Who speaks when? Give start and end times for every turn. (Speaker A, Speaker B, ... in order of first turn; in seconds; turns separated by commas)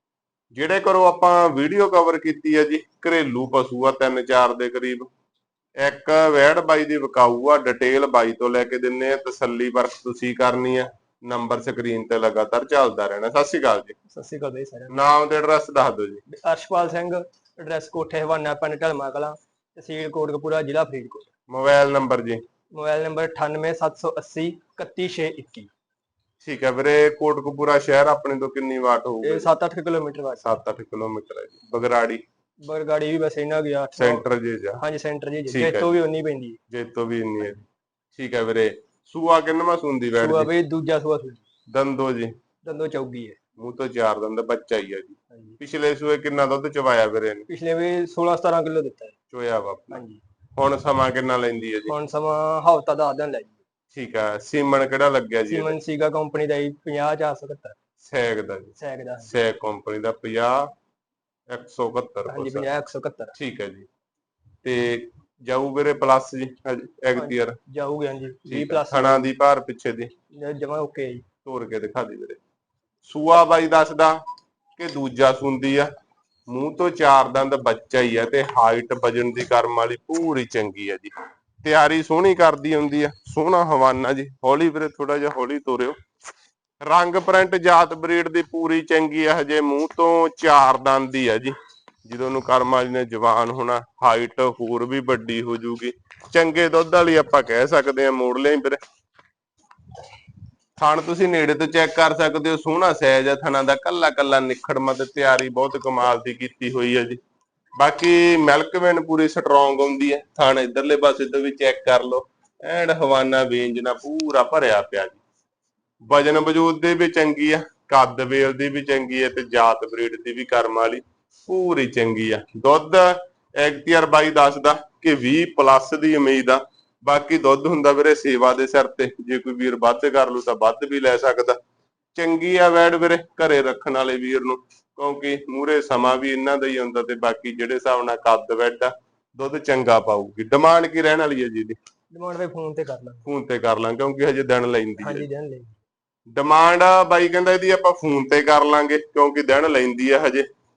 Speaker A: 0.5-5.1, Speaker A: 5.8-14.0, Speaker B: 14.1-14.9, Speaker A: 14.9-16.2, Speaker B: 16.3-21.3, Speaker A: 21.5-22.4, Speaker B: 22.7-25.7, Speaker A: 26.4-29.5, Speaker B: 29.2-30.5, Speaker A: 30.4-32.2, Speaker B: 32.6-34.2, Speaker A: 34.0-34.8, Speaker B: 34.8-36.6, Speaker A: 35.5-35.9, Speaker A: 36.7-37.6, Speaker A: 38.2-40.5, Speaker B: 40.2-41.5, Speaker A: 41.7-42.3, Speaker B: 42.6-43.4, Speaker A: 43.6-47.5, Speaker B: 47.5-49.1, Speaker A: 49.3-50.0, Speaker B: 49.9-50.2, Speaker A: 50.6-51.9, Speaker B: 51.9-53.6, Speaker A: 53.9-55.8, Speaker B: 55.5-57.8, Speaker A: 58.0-60.7, Speaker B: 58.8-59.3, Speaker A: 61.5-62.7, Speaker B: 62.3-63.4, Speaker A: 63.4-63.9, Speaker A: 64.6-67.6, Speaker B: 67.2-69.3, Speaker A: 68.5-70.1, Speaker B: 70.3-71.2, Speaker A: 71.5-72.4, Speaker A: 73.0-74.2, Speaker A: 74.8-75.9, Speaker A: 76.5-81.1, Speaker A: 81.6-86.0, Speaker A: 86.8-91.5, Speaker A: 92.0-98.8, Speaker A: 100.8-107.2, Speaker A: 107.8-115.2, Speaker A: 116.1-131.6, Speaker A: 132.2-141.8, Speaker B: 142.1-143.3, Speaker A: 143.3-145.3, Speaker B: 145.0-145.8, Speaker A: 146.3-150.5